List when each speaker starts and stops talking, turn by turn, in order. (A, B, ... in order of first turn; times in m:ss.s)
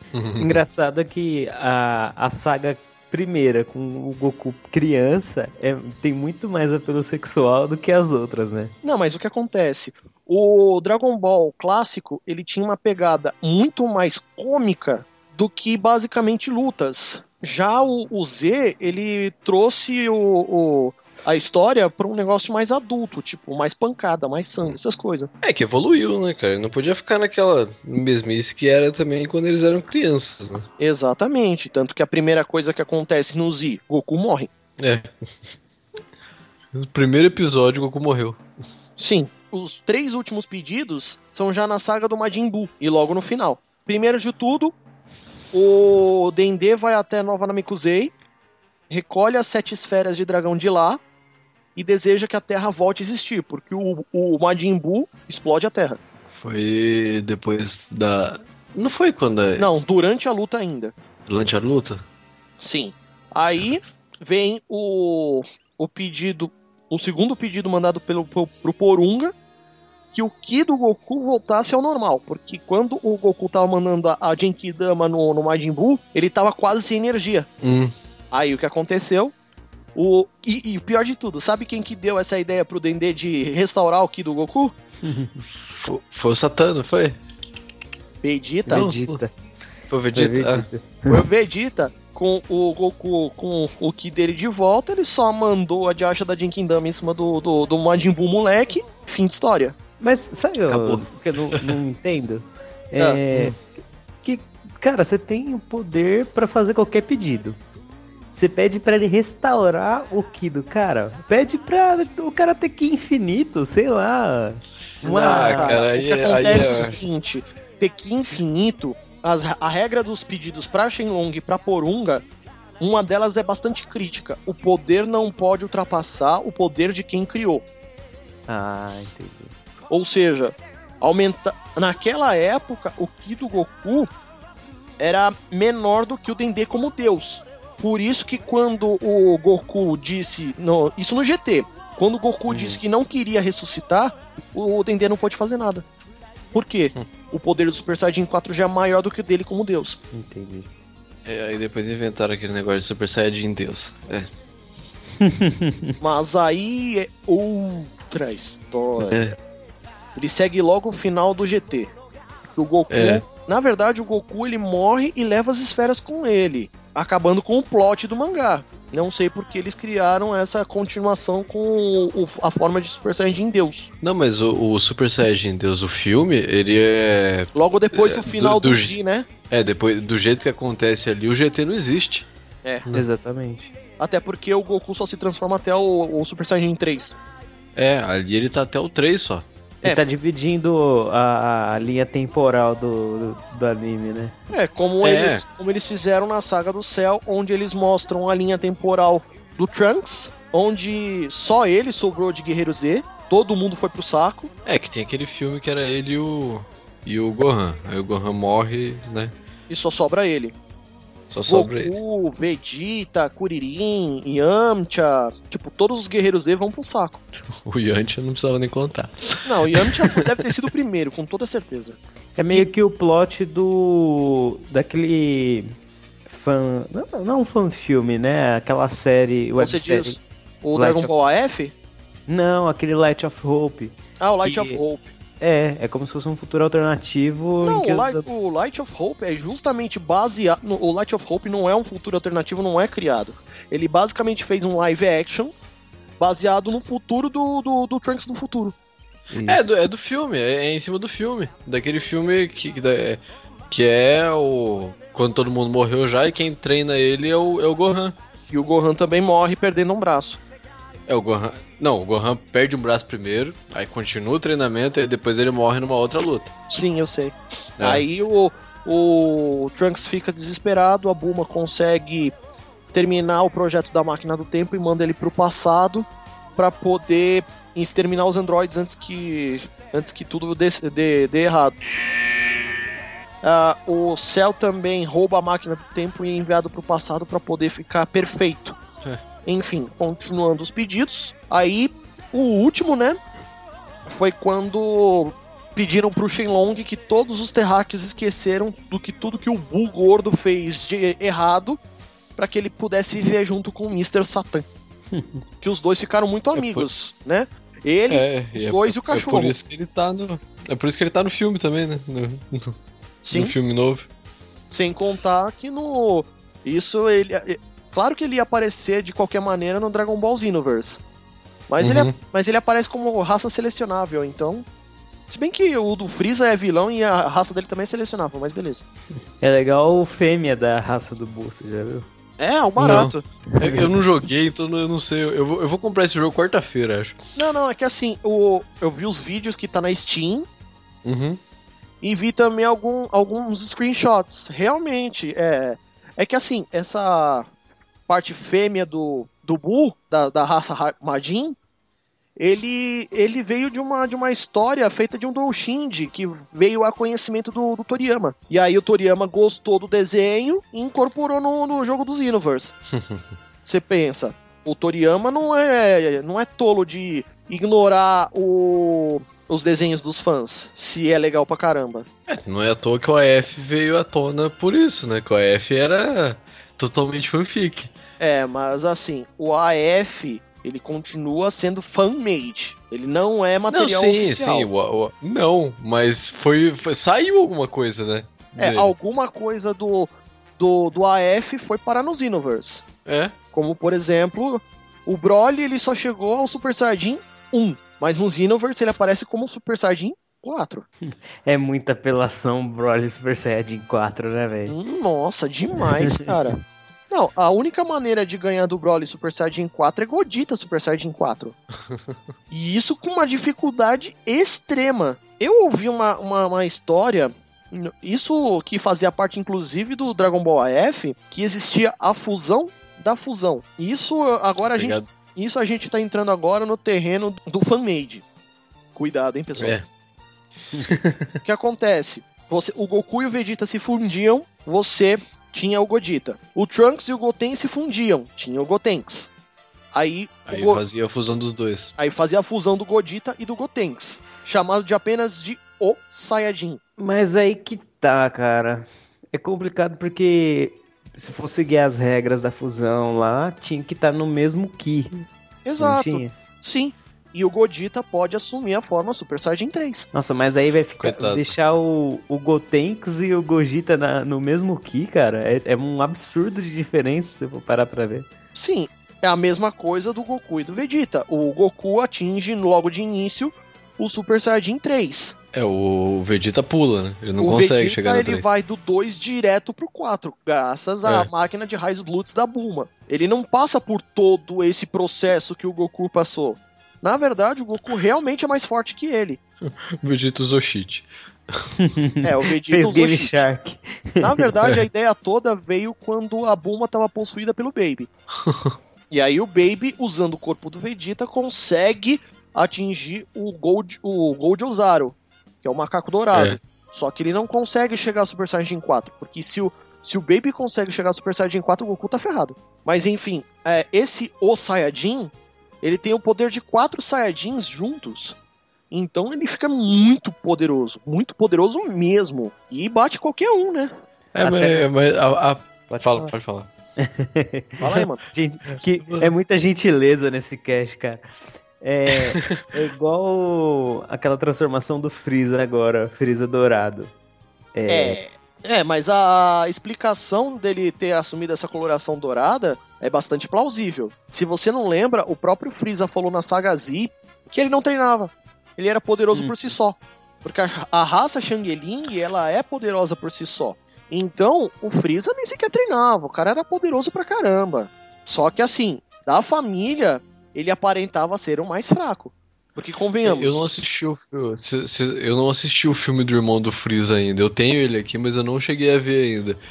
0:00.1-0:00.6 A
0:00.4-0:08.7 B
0:08.8-0:25.3 C
0:25.4-0:30.7 A
0:30.8-0:34.5 C
0:34.8-0:35.1 A
0:36.7-0:38.4 A
0:39.0-0:44.8 C
0:45.5-0:48.1 C
0:48.9-0:51.0 C
0:51.8-0:56.0 C
0:56.4-0:59.7 A
0:59.6-1:00.9 C
1:01.3-1:02.0 A
1:02.6-1:09.3 C
1:10.1-1:17.5 C
1:17.6-1:17.9 A
1:18.3-1:19.3 C
1:20.0-1:24.8 C
1:25.0-1:25.4 B
1:25.8-1:27.2 A
1:28.2-1:28.9 C
1:28.7-1:29.3 B
1:28.7-1:29.2 A
1:29.9-1:30.7 A
1:30.1-1:31.2 B
1:31.1-1:39.8 C
1:40.0-1:43.6 B
1:40.7-1:41.7 A
1:44.2-1:47.6 B
1:48.3-1:55.8 B
1:55.0-2:02.2 C
1:55.1-1:57.0 A
1:56.4-1:56.7 B
2:02.8-2:07.6 C
2:08.5-2:09.5 B
2:09.9-2:14.1 C
2:15.0-2:25.8 C
2:22.5-2:22.8 B
2:26.5-2:30.0 C
2:30.1-2:30.7 B
2:31.3-2:34.3 A
2:35.2-2:35.9 B
2:36.0-2:39.3 C
2:39.0-2:39.3 A
2:40.2-2:41.9 C
2:42.5-2:53.9 C
2:42.9-2:43.2 A
2:54.0-2:59.0 A
2:57.6-2:59.3 C
2:59.5-3:02.3 A
3:02.9-3:03.7 B
3:04.0-3:07.2 C
3:07.8-3:09.5 A
3:09.8-3:14.4 B
3:14.5-3:24.5 C
3:15.0-3:15.4 A
3:24.7-3:29.3 A
3:29.7-3:30.6 C
3:31.3-3:31.9 A
3:31.5-3:37.2 C
3:37.5-3:40.2 A
3:39.4-3:42.0 C
3:42.4-3:45.7 B
3:46.3-3:50.2 B
3:49.6-3:51.7 C
3:50.8-3:51.1 B
3:52.3-3:54.8 B
3:54.2-3:55.1 C
3:55.4-3:58.3 B
3:57.6-4:05.5 C
4:06.2-4:08.8 C
4:09.3-4:09.8 B
4:09.5-4:18.2 A
4:18.5-4:20.4 C
4:21.1-4:26.5 A
4:26.7-4:32.3 C
4:27.8-4:28.0 A
4:32.9-4:41.8 C
4:43.4-4:48.8 C
4:49.4-4:53.2 C
4:54.1-5:01.8 C
5:02.4-5:04.7 C
5:05.1-5:05.4 B
5:05.6-5:09.6 C
5:06.6-5:06.8 A
5:08.1-5:12.8 A
5:13.2-5:13.6 C
5:13.3-5:14.1 A
5:14.7-5:21.0 C
5:21.7-5:24.7 C
5:21.8-5:22.2 A
5:25.3-5:28.8 C
5:29.4-5:32.1 B
5:32.4-5:33.3 C
5:32.8-5:37.2 A
5:33.6-5:33.8 B
5:37.4-5:40.5 C
5:41.0-5:41.4 A
5:42.0-5:47.5 C
5:48.1-5:51.6 C
5:52.4-6:02.7 C
6:02.9-6:03.4 A
6:03.7-6:12.1 C
6:12.3-6:17.9 A
6:18.2-6:24.7 C
6:23.7-6:28.9 A
6:28.6-6:32.8 C
6:33.1-6:33.4 A
6:33.5-6:40.9 C
6:41.1-6:44.8 B
6:44.7-6:46.6 C
6:47.1-6:51.6 C
6:51.9-6:52.2 A
6:52.5-7:08.2 C
7:04.7-7:05.1 A
7:09.0-7:09.8 C
7:09.6-7:09.8 A
7:10.8-7:11.3 A
7:11.4-7:19.3 C
7:19.9-7:20.8 C
7:20.5-7:21.9 A
7:22.0-7:26.8 C
7:27.0-7:35.3 B
7:35.6-7:40.1 C
7:35.8-7:36.3 B
7:40.1-7:48.3 B
7:41.0-7:41.5 A
7:48.6-7:55.4 C
7:55.5-7:58.4 A
7:57.4-8:09.4 C
8:09.6-8:11.6 A
8:11.8-8:14.5 B
8:12.2-8:13.4 C
8:14.2-8:18.1 C
8:18.4-8:18.8 A
8:19.1-8:38.4 C
8:26.3-8:26.6 A
8:38.9-8:43.9 C
8:44.4-8:46.7 A
8:44.4-8:45.0 B
8:45.9-8:46.3 B
8:47.0-8:51.2 B
8:47.8-8:48.2 C
8:48.7-8:49.3 A
8:51.8-8:57.1 B
8:52.3-8:52.6 A
8:57.7-8:58.2 B
8:57.9-9:23.7 C
9:09.3-9:09.7 B
9:23.2-9:29.6 A